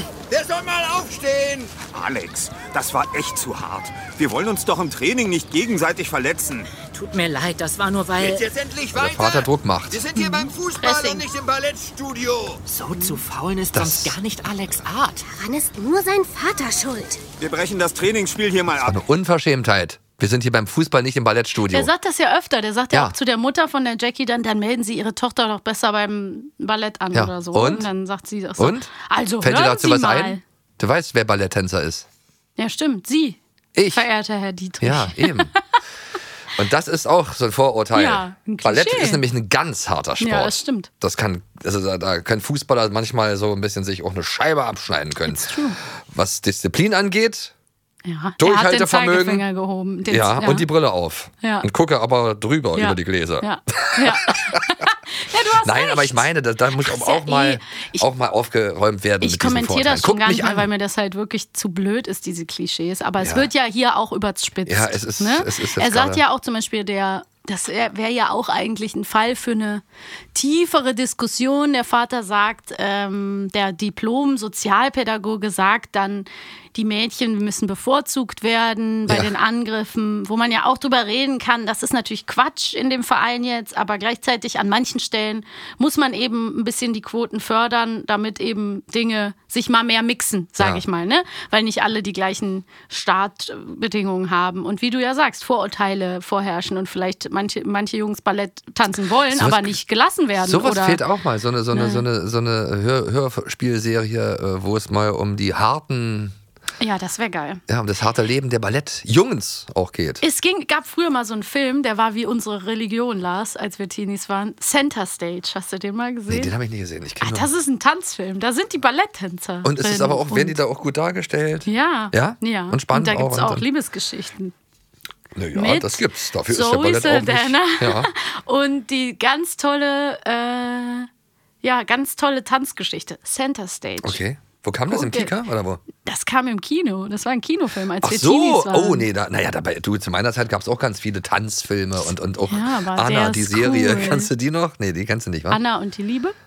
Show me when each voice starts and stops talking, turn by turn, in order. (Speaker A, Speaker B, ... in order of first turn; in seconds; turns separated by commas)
Speaker A: 0.3-1.7, Speaker B: 1.8-6.7, Speaker C: 6.8-8.5, Speaker A: 8.4-9.2, Speaker D: 8.9-10.0, Speaker A: 10.1-12.5, Speaker E: 10.2-11.2, Speaker C: 10.9-11.2, Speaker C: 12.7-15.2, Speaker D: 13.7-14.2, Speaker F: 15.3-17.2, Speaker B: 17.4-19.0, Speaker D: 18.8-21.9, Speaker E: 21.7-30.4, Speaker D: 27.1-27.9, Speaker D: 28.6-32.1, Speaker E: 32.6-33.4, Speaker D: 33.7-34.1, Speaker E: 33.9-35.6, Speaker D: 34.8-35.5, Speaker D: 36.5-47.5, Speaker E: 37.9-39.2, Speaker E: 40.2-40.9, Speaker E: 45.3-45.8, Speaker E: 48.0-50.7, Speaker D: 48.4-49.4, Speaker D: 50.1-54.8, Speaker E: 51.4-51.7, Speaker E: 52.7-58.0, Speaker D: 55.6-60.7, Speaker E: 59.2-101.0, Speaker D: 63.2-63.5, Speaker D: 64.7-66.2, Speaker D: 79.1-79.3, Speaker D: 90.6-90.8, Speaker D: 99.3-99.8, Speaker D: 100.4-106.3, Speaker E: 101.7-102.0, Speaker E: 106.8-107.6, Speaker D: 107.7-110.2, Speaker E: 110.2-116.5, Speaker D: 116.3-117.5, Speaker E: 117.2-120.6, Speaker D: 119.6-123.7, Speaker E: 121.7-124.5, Speaker D: 125.3-128.1, Speaker E: 125.5-131.1, Speaker E: 131.6-134.2, Speaker D: 134.0-135.8, Speaker E: 134.9-135.3, Speaker E: 136.0-139.1, Speaker D: 138.0-145.6, Speaker E: 142.5-144.3, Speaker E: 145.5-146.3